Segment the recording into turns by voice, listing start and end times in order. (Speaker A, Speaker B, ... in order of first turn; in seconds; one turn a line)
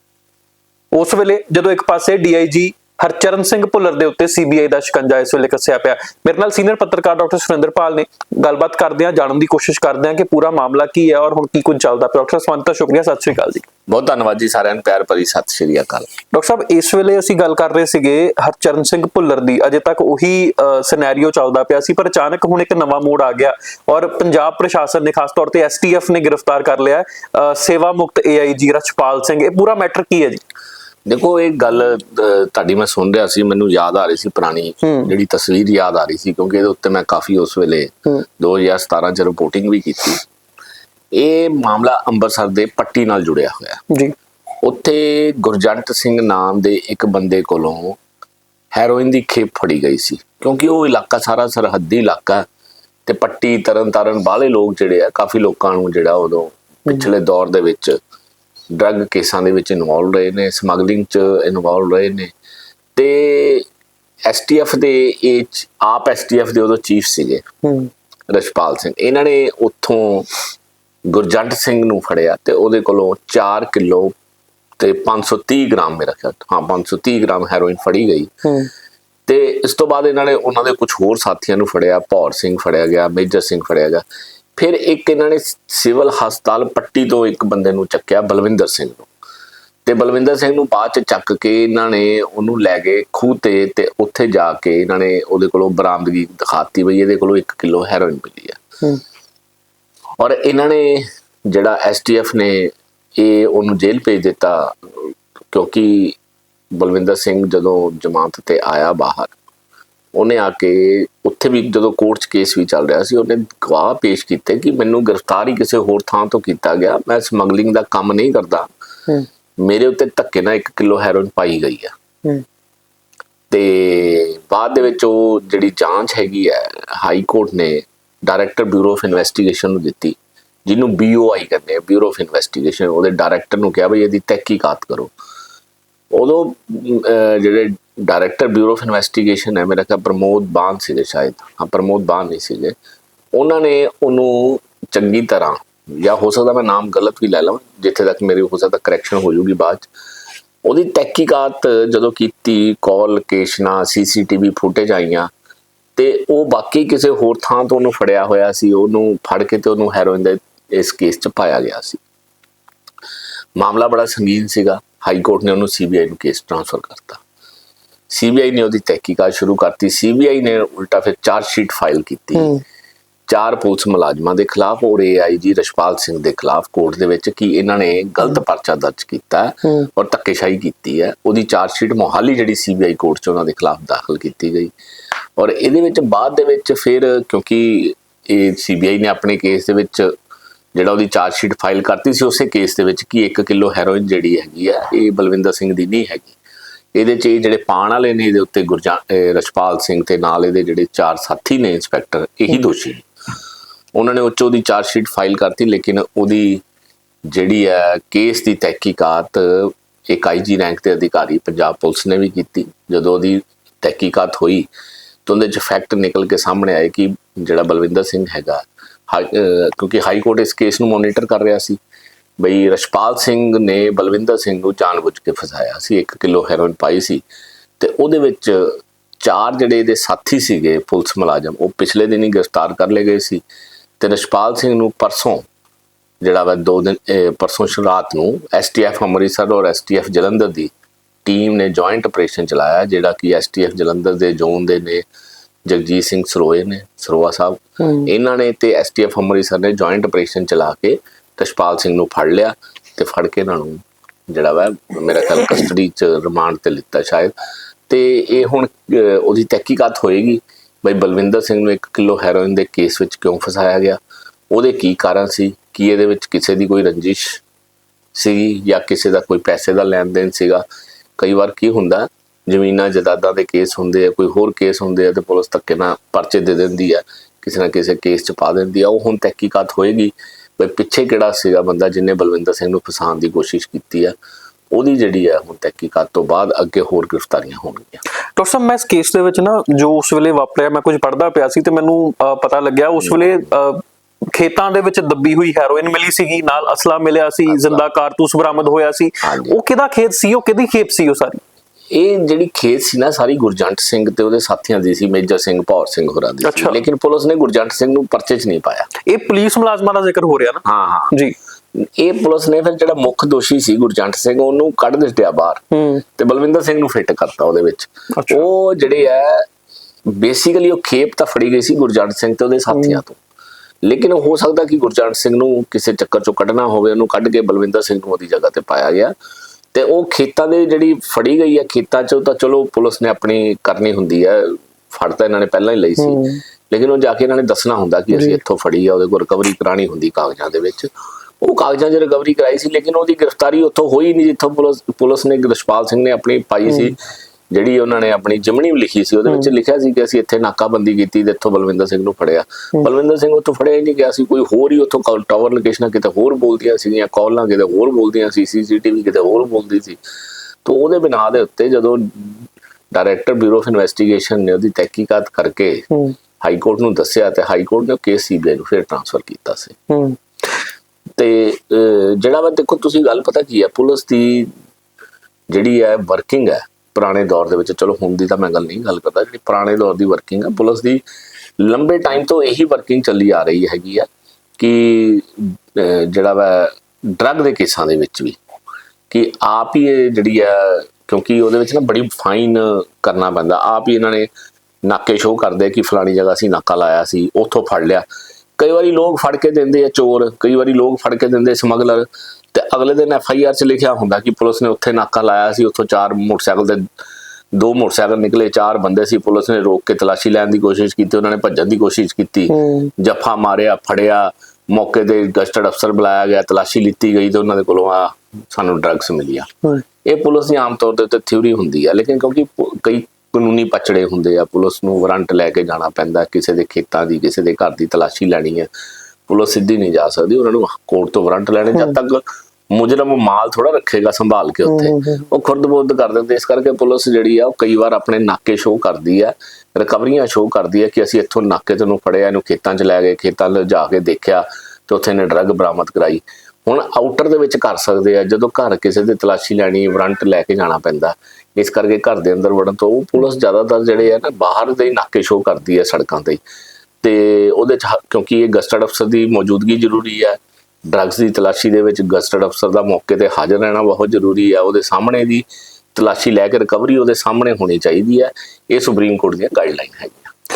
Speaker A: 0.9-13.7
Speaker B: 13.9-16.1
Speaker A: 16.3-30.4
Speaker B: 31.1-40.2
Speaker A: 34.8-35.1
Speaker B: 41.1-43.8
Speaker B: 44.6-48.0
Speaker B: 48.7-52.4
Speaker B: 53.0-58.0
Speaker B: 58.7-62.3
Speaker B: 63.0-63.6
Speaker B: 64.3-67.4
Speaker A: 67.6-67.9
Speaker B: 68.3-70.3
Speaker B: 71.1-74.1
Speaker B: 74.8-78.3
Speaker A: 78.4-78.7
Speaker B: 79.3-84.0
Speaker B: 84.6-89.1
Speaker B: 89.8-98.6
Speaker B: 100.2-106.2
Speaker B: 106.7-109.3
Speaker B: 110.1-118.7
Speaker B: 119.6-121.9
Speaker B: 123.5-135.1
Speaker B: 136.1-142.7
Speaker B: 143.3-149.9
Speaker B: 150.6-155.3
Speaker B: 155.9-162.0
Speaker B: 163.6-167.2
Speaker B: 168.1-172.5
Speaker A: 172.3-172.6
Speaker B: 173.3-184.7
Speaker A: 179.6-179.9
Speaker B: 185.4-190.1
Speaker B: 190.7-196.3
Speaker B: 196.9-203.1
Speaker B: 203.9-206.6
Speaker B: 207.3-214.7
Speaker B: 215.2-221.8
Speaker B: 222.4-227.2
Speaker B: 227.8-233.4
Speaker B: 234.0-235.4
Speaker B: 236.2-240.7
Speaker B: 241.2-245.0
Speaker B: 245.7-257.3
Speaker A: 247.8-248.1
Speaker B: 257.9-264.0
Speaker B: 264.5-267.4
Speaker B: 268.1-270.6
Speaker B: 271.2-284.1
Speaker B: 284.7-288.0
Speaker A: 288.4-301.4
Speaker B: 293.0-293.5
Speaker B: 297.5-297.8
Speaker B: 299.2-299.6
Speaker B: 301.9-308.9
Speaker A: 306.4-306.8
Speaker A: 309.0-311.3
Speaker B: 310.6-311.2
Speaker B: 311.7-315.6
Speaker A: 315.7-316.0
Speaker B: 316.2-319.4
Speaker A: 318.1-318.5
Speaker B: 320.1-323.2
Speaker A: 322.7-323.0
Speaker B: 323.8-329.1
Speaker B: 329.7-340.9
Speaker A: 336.0-336.4
Speaker B: 341.4-346.9
Speaker B: 347.5-360.0
Speaker B: 360.6-365.9
Speaker B: 366.4-369.8
Speaker A: 369.9-370.2
Speaker B: 371.2-374.5
Speaker B: 375.5-381.0
Speaker B: 381.6-384.1
Speaker B: 384.6-388.4
Speaker B: 389.1-394.3
Speaker B: 394.8-398.1
Speaker B: 398.6-406.8
Speaker B: 407.5-419.5
Speaker A: 412.5-412.9
Speaker B: 420.0-428.7
Speaker B: 429.3-456.4
Speaker A: 434.6-435.3
Speaker B: 457.0-460.4
Speaker B: 460.9-470.3